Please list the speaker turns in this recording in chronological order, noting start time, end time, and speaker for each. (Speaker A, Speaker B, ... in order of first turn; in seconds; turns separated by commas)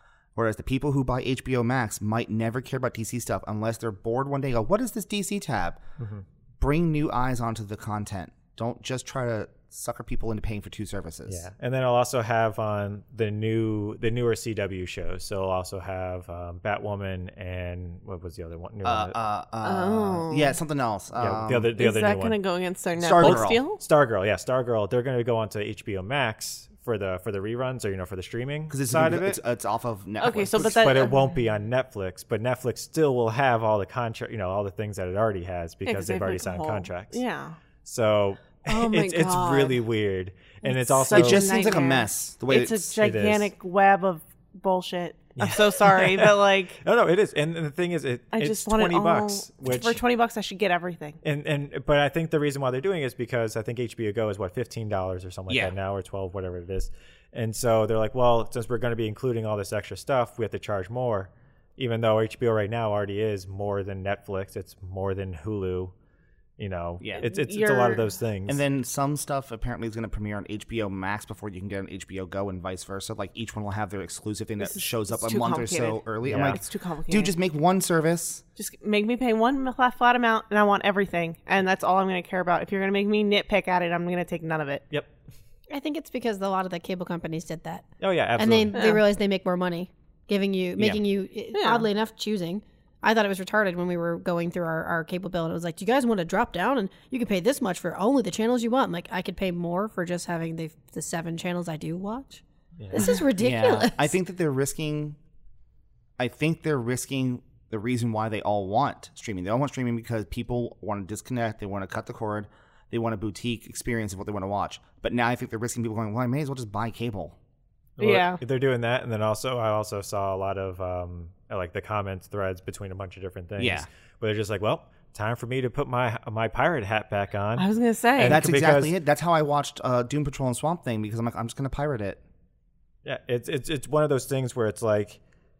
Speaker A: 0.3-5.8, Speaker B: 6.0-6.2, Speaker A: 6.6-11.5, Speaker B: 11.3-19.1, Speaker A: 18.8-21.7, Speaker C: 19.6-20.6, Speaker B: 21.2-22.4, Speaker C: 21.8-23.8, Speaker A: 23.0-23.6, Speaker B: 23.2-29.4, Speaker A: 28.7-31.1, Speaker C: 30.2-31.3, Speaker B: 30.6-37.2, Speaker C: 35.9-37.6, Speaker B: 37.8-41.5, Speaker C: 38.6-39.8, Speaker C: 40.6-46.8, Speaker A: 41.1-42.9, Speaker B: 43.0-43.5, Speaker B: 45.4-50.0, Speaker C: 48.3-51.2, Speaker B: 51.2-65.9, Speaker B: 66.6-68.6, Speaker A: 67.0-67.2, Speaker C: 67.2-68.1, Speaker A: 68.5-78.4, Speaker C: 74.6-77.3, Speaker B: 76.2-76.6, Speaker C: 78.6-84.8, Speaker D: 85.7-87.8, Speaker B: 88.0-88.8, Speaker D: 88.4-102.4, Speaker C: 88.7-89.0, Speaker C: 91.5-91.8, Speaker B: 102.8-103.1, Speaker D: 102.9-104.1, Speaker A: 103.4-105.2, Speaker A: 106.2-117.3, Speaker B: 118.0-128.9, Speaker C: 118.0-118.4, Speaker A: 123.6-123.9, Speaker C: 127.5-128.4, Speaker A: 128.2-132.2, Speaker B: 133.0-135.2